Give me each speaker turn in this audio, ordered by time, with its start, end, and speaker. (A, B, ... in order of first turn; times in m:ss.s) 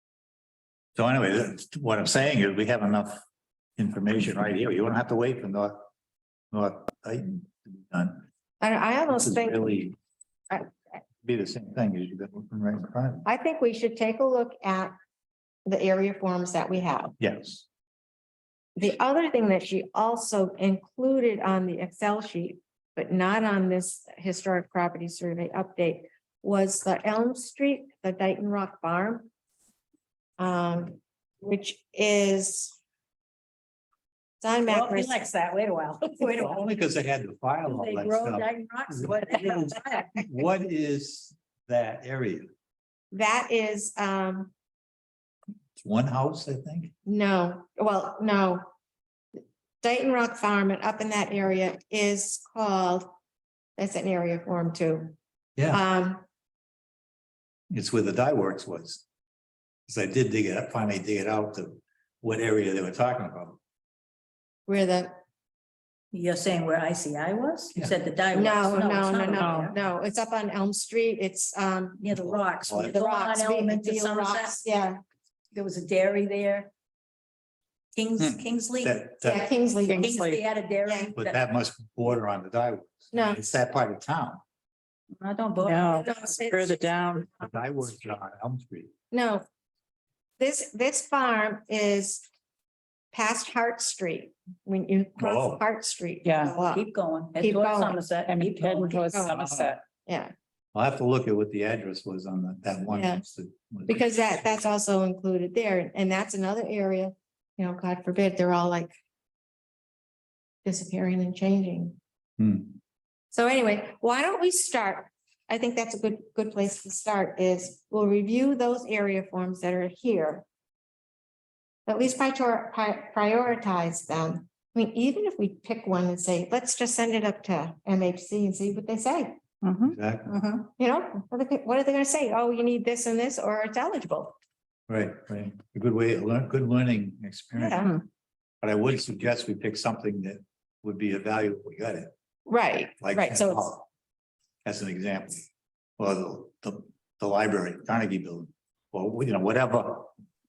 0:01.0-0:03.2 A
0:03.8-0:05.9 A
0:06.5-0:08.2 A
0:08.6-0:09.8 B
0:09.1-0:10.0 A
0:11.2-0:13.3 A
0:13.2-0:14.9 B
0:15.6-0:17.1 B
0:17.2-0:17.6 A
0:18.8-0:29.3 B
0:30.4-0:32.8 B
0:34.4-0:35.2 B
0:34.7-0:36.6 C
0:36.2-0:42.5 A
0:37.6-0:40.1 C
0:43.1-0:44.5 B
0:45.8-0:46.9 A
0:47.0-0:48.6 B
0:49.8-0:53.1 B
0:53.8-0:55.1 B
0:55.7-0:56.2 B
0:57.7-0:59.0 A
0:59.9-1:03.6 A
1:04.7-1:05.1 B
1:06.1-1:09.7 C
1:08.3-1:12.1 B
1:09.4-1:09.7 D
1:12.0-1:14.6 C
1:12.6-1:13.0 A
1:12.7-1:15.0 B
1:15.5-1:16.7 C
1:17.9-1:19.0 C
1:18.2-1:19.5 A
1:19.2-1:20.2 B
1:19.9-1:20.4 D
1:19.9-1:21.4 C
1:20.8-1:21.1 B
1:21.1-1:24.4 A
1:23.1-1:23.4 B
1:25.2-1:26.0 C
1:25.6-1:27.3 D
1:25.9-1:26.8 B
1:27.3-1:28.9 A
1:29.1-1:29.4 B
1:30.4-1:32.2 B
1:33.1-1:36.8 B
1:35.2-1:35.6 A
1:36.2-1:36.6 D
1:36.6-1:39.0 C
1:37.4-1:38.0 B
1:38.3-1:39.8 D
1:39.1-1:39.4 B
1:39.3-1:39.7 A
1:40.0-1:40.3 B
1:40.7-1:44.2 A
1:42.9-1:43.2 B
1:43.9-1:48.9 B
1:50.6-1:52.0 B
1:52.4-1:52.8 A
1:53.3-2:00.4 B
2:01.9-2:09.4 B
2:09.6-2:10.7 C
2:09.8-2:10.3 A
2:10.8-2:14.3 B
2:14.9-2:17.9 A
2:17.6-2:18.0 B
2:18.6-2:22.1 A
2:22.5-2:23.7 B
2:23.0-2:23.8 A
2:24.6-2:25.4 A
2:26.0-2:30.1 A